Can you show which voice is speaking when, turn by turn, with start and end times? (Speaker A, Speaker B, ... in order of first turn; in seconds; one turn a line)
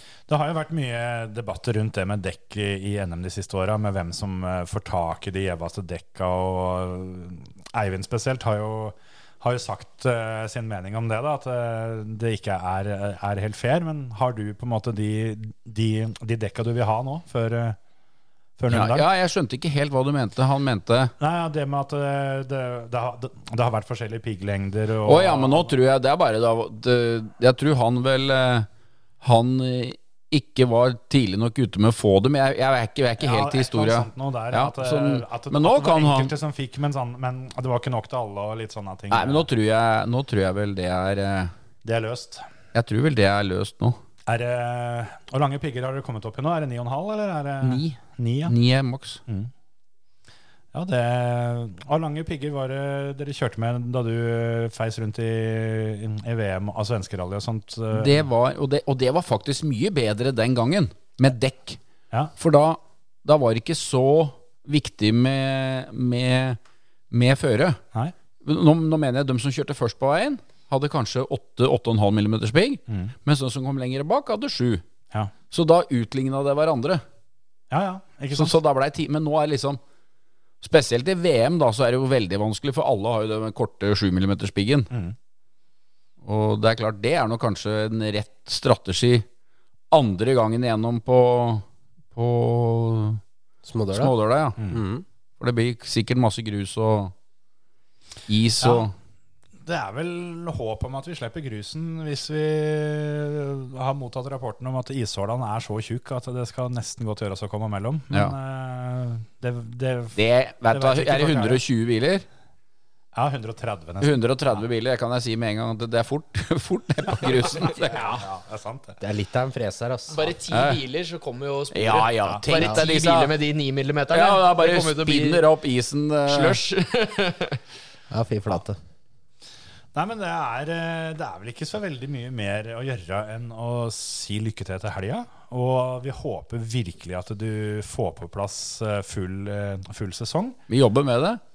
Speaker A: 0.3-17.8
Speaker A: 18.6-19.1
Speaker B: 18.7-21.1
Speaker A: 21.2-25.7
Speaker B: 25.0-28.7
Speaker B: 29.2-36.3
Speaker A: 33.2-39.5
Speaker B: 39.1-41.5
Speaker A: 41.8-42.4
Speaker B: 42.7-44.0
Speaker A: 44.2-48.5
Speaker B: 47.6-47.9
Speaker B: 48.5-49.2
Speaker A: 50.7-58.2
Speaker B: 57.9-61.8
Speaker B: 62.4-66.6
Speaker B: 67.1-67.8
Speaker B: 68.4-74.8
Speaker A: 72.9-73.1
Speaker B: 75.5-77.0
Speaker A: 77.7-78.5
Speaker B: 78.3-79.8
Speaker B: 80.6-84.9
Speaker B: 86.2-89.2
Speaker B: 89.9-93.2
Speaker C: 93.6-94.1
Speaker B: 93.9-94.6
Speaker C: 94.7-95.0
Speaker B: 95.4-97.1
Speaker B: 98.3-98.9
Speaker A: 98.6-98.9
Speaker A: 99.6-110.2
Speaker B: 110.1-112.2
Speaker A: 110.7-111.6
Speaker A: 113.1-114.6
Speaker B: 114.0-118.1
Speaker D: 117.5-117.8
Speaker A: 117.7-119.0
Speaker C: 119.0-120.3
Speaker D: 120.1-125.5
Speaker B: 120.5-120.8
Speaker B: 121.7-123.3
Speaker B: 124.1-126.6
Speaker D: 126.3-127.6
Speaker C: 128.1-128.8
Speaker A: 129.9-140.6
Speaker B: 140.7-141.4